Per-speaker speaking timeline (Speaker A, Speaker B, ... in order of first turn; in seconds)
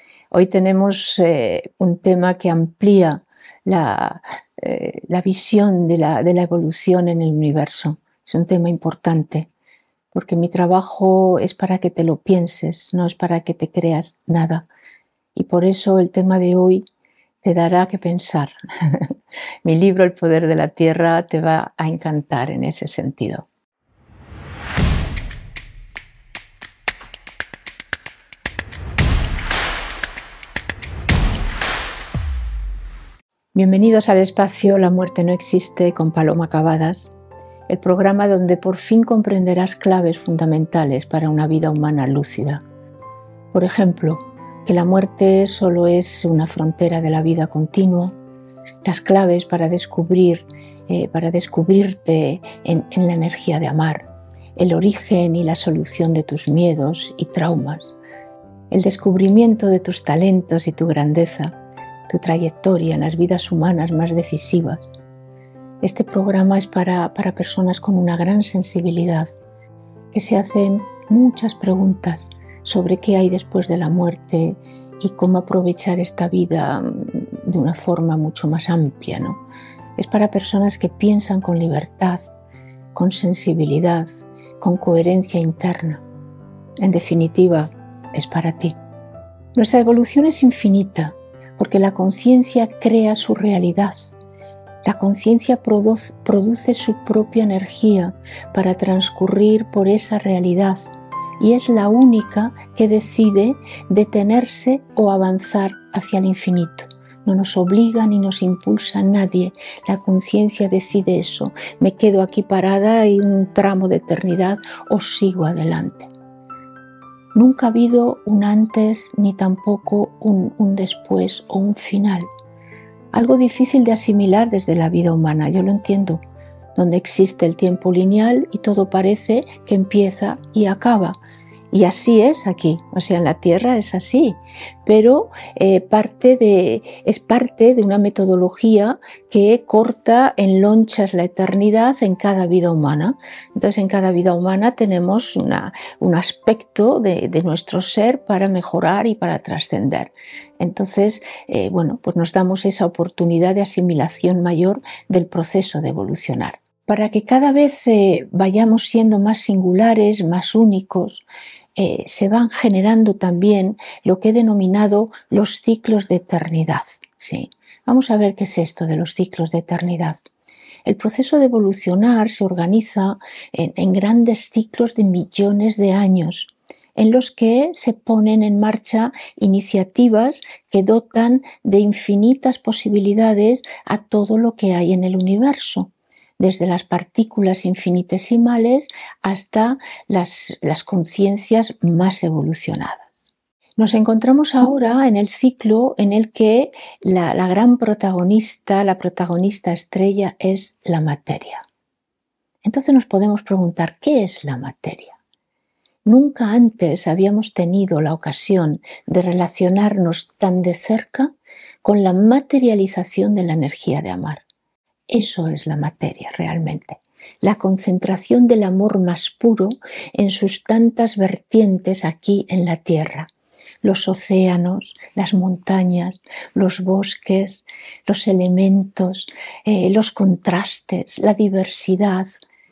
Speaker A: 0.3-9.5, 10.1-14.7, 15.3-16.9, 17.4-23.5, 33.5-37.1, 37.7-42.6, 43.5-48.1, 48.8-54.0, 54.6-57.9, 58.7-61.5, 62.1-64.9, 65.8-69.3, 70.1-79.4, 80.0-82.3, 82.9-86.0, 86.8-88.8, 89.5-94.1, 94.8-116.1, 117.3-122.3, 123.1-126.2, 126.7-131.2, 131.7-161.2, 161.8-170.3, 170.8-193.2, 193.8-201.6, 202.6-205.2, 206.1-211.3, 211.8-214.4, 215.1-223.3, 223.8-232.4